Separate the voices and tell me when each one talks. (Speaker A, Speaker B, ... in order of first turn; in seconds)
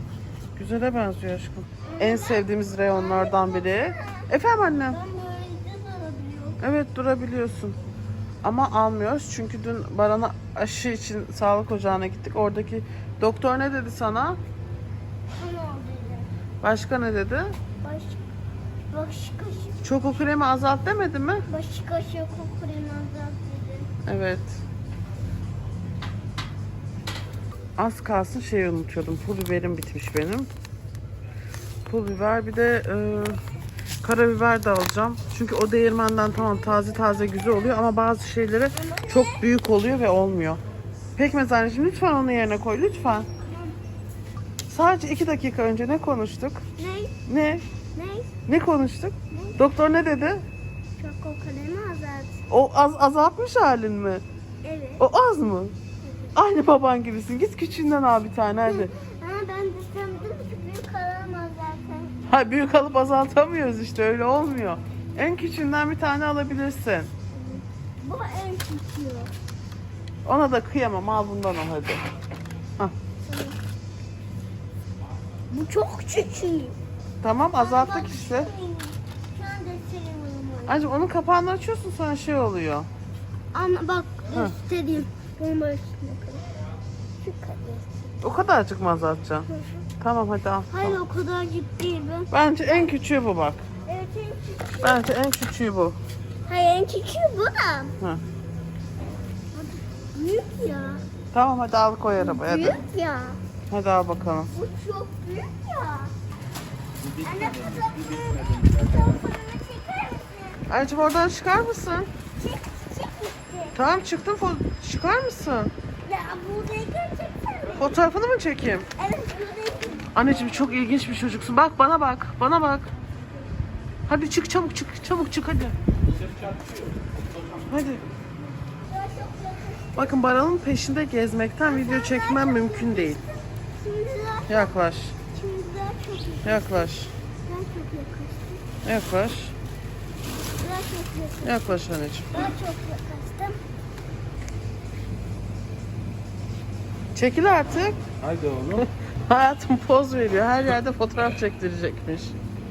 Speaker A: 0.6-5.0, 6.6-7.8, 8.4-14.4, 16.6-17.6, 19.8-21.4, 24.1-24.6, 27.8-30.5, 31.9-33.4, 34.0-40.6, 41.1-43.3, 44.7-46.6, 47.2-47.6, 48.5-50.4, 52.5-54.2, 55.0-55.8, 56.3-58.9, 62.3-67.1, 70.2-72.0, 77.2-78.5, 80.7-82.9, 88.2-91.0, 92.3-93.6, 94.8-96.0, 101.3-102.8, 103.7-104.5, 110.7-112.1, 113.8-115.7, 117.8-118.9, 120.1-122.9, 124.1-125.8, 127.7-128.1, 129.9-133.2, 134.5-135.2, 136.4-137.1, 138.8-139.6, 141.4-142.6, 147.1-148.0, 148.8-152.4
Speaker B: 1.8-4.3, 4.8-6.6, 15.4-16.3, 17.8-18.2, 18.9-19.8, 21.5-23.9, 38.8-39.4, 43.5-43.7, 46.8-47.1, 47.9-48.3, 49.3-49.6, 51.0-52.4, 54.6-55.0, 56.0-56.3, 58.6-62.1, 67.3-69.3, 73.3-73.6, 75.5-76.8, 77.6-80.9, 83.5-86.4, 87.2-88.1, 89.5-89.8, 90.7-92.9, 93.9-95.0, 96.5-97.9, 99.5-101.0, 102.2-103.4, 104.5-106.1, 107.2-110.7, 112.4-113.8, 116.0-117.9, 119.0-120.0, 128.8-130.2, 131.6-134.8, 135.3-136.9, 137.4-138.6, 140.6-141.8, 142.3-143.6
Speaker C: 107.0-109.2, 126.1-127.6, 148.2-148.9